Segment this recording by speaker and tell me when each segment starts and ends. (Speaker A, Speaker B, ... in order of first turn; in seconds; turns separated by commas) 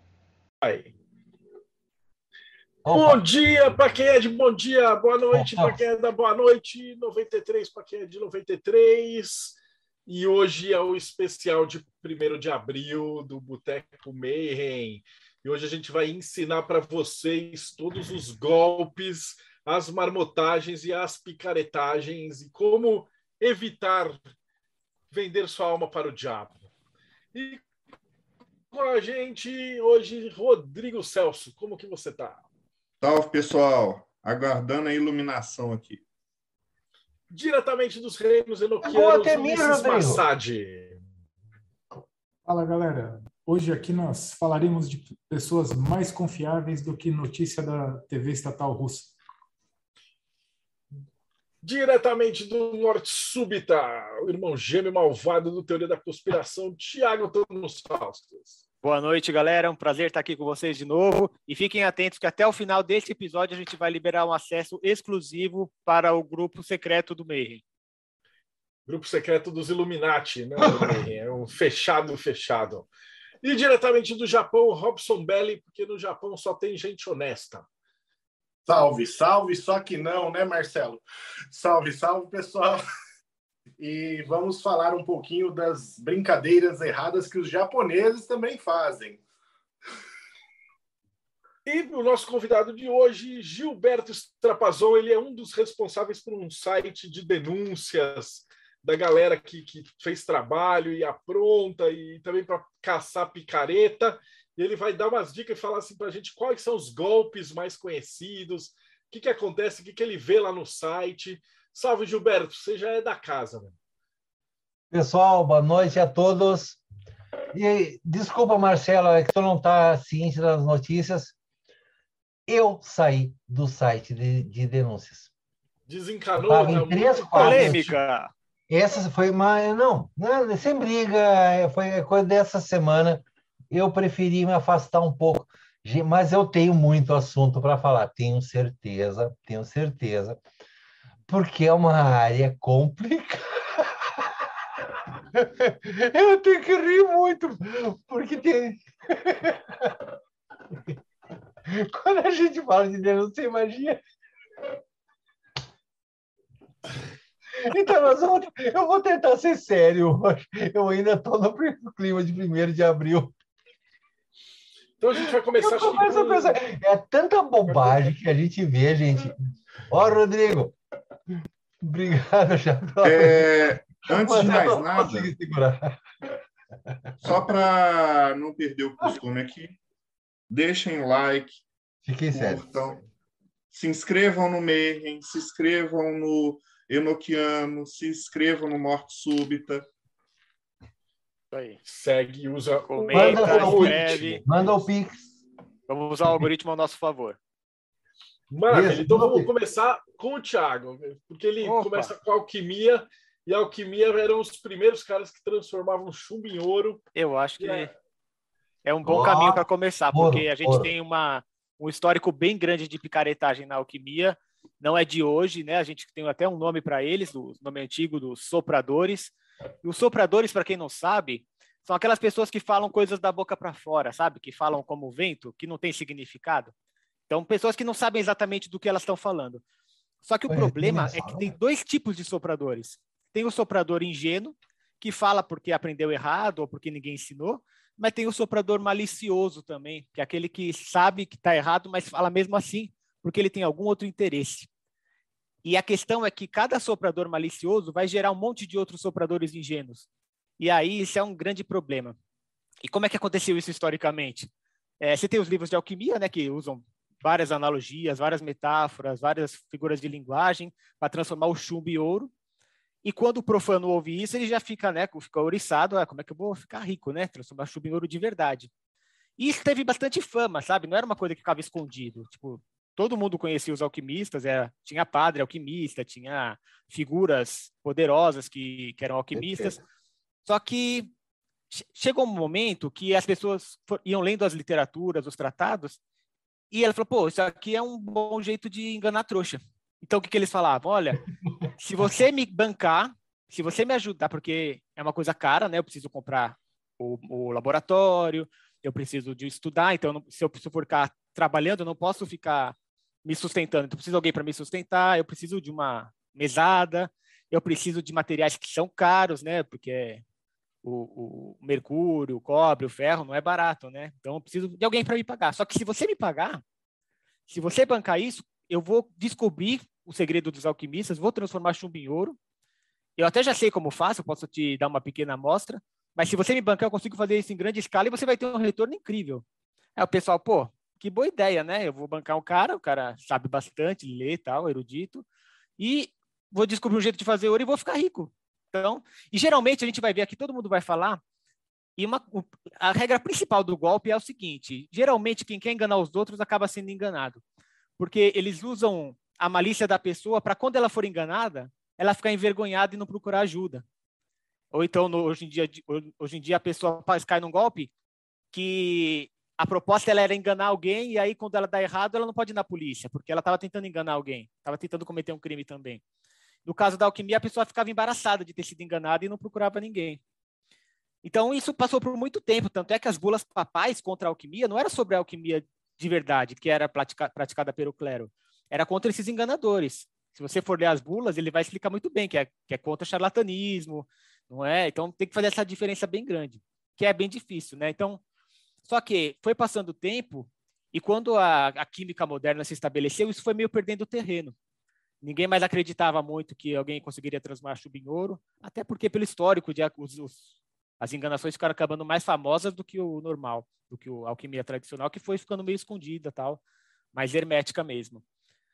Speaker A: 0.6-0.9, Speaker B: 2.9-3.2, Speaker A: 2.9-24.2, Speaker B: 5.3-5.8, Speaker A: 25.1-26.6, Speaker A: 27.3-27.6, Speaker A: 28.7-32.4, Speaker C: 33.0-36.0, Speaker A: 37.3-41.0, Speaker B: 38.8-40.2, Speaker D: 42.5-49.2, Speaker A: 51.6-58.6, Speaker E: 58.8-67.6, Speaker A: 68.9-72.9, Speaker B: 70.6-71.0, Speaker A: 73.4-77.7, Speaker F: 78.7-82.8, Speaker F: 83.8-89.2, Speaker A: 91.7-113.7, Speaker B: 114.9-116.8, Speaker B: 117.5-121.3, Speaker B: 122.5-125.3, Speaker A: 125.9-127.9, Speaker B: 126.4-127.9, Speaker E: 127.3-128.3, Speaker B: 128.7-140.4, Speaker B: 141.3-144.4, Speaker B: 145.3-150.1, Speaker B: 151.7-154.0, Speaker B: 157.6-163.3, Speaker A: 165.0-166.6, Speaker B: 165.2-169.3, Speaker A: 167.7-168.0, Speaker B: 169.9-170.8, Speaker B: 171.8-173.5, Speaker C: 173.0-175.3, Speaker B: 174.0-176.0, Speaker C: 177.2-179.8, Speaker C: 180.5-181.6, Speaker B: 182.1-182.7, Speaker C: 182.3-183.0, Speaker C: 183.7-189.9, Speaker E: 191.5-191.8, Speaker A: 191.8-194.8, Speaker E: 192.9-194.4, Speaker B: 193.1-195.2, Speaker E: 195.9-197.4, Speaker A: 198.5-207.1, Speaker B: 198.7-199.5, Speaker E: 201.6-202.1, Speaker E: 207.2-207.9, Speaker A: 207.6-207.9, Speaker E: 208.8-226.7, Speaker B: 209.0-210.9, Speaker E: 227.3-229.6, Speaker E: 230.2-244.7, Speaker B: 230.5-231.5, Speaker E: 245.7-250.1, Speaker E: 250.6-252.2, Speaker E: 252.8-254.5, Speaker E: 255.0-262.3, Speaker E: 263.0-268.7, Speaker E: 269.4-279.8, Speaker B: 279.3-279.8, Speaker E: 280.4-281.1, Speaker E: 281.7-286.0, Speaker E: 286.7-291.2, Speaker E: 291.8-310.2, Speaker E: 310.8-316.6, Speaker E: 317.5-322.4, Speaker E: 323.2-329.4, Speaker E: 330.0-335.2, Speaker E: 335.8-341.2, Speaker E: 342.0-347.4, Speaker E: 348.0-353.8, Speaker E: 354.7-357.9, Speaker E: 358.5-366.0, Speaker E: 366.6-370.2, Speaker E: 371.2-388.2, Speaker E: 388.9-394.5, Speaker E: 395.2-400.4, Speaker E: 401.0-406.6, Speaker E: 407.1-408.2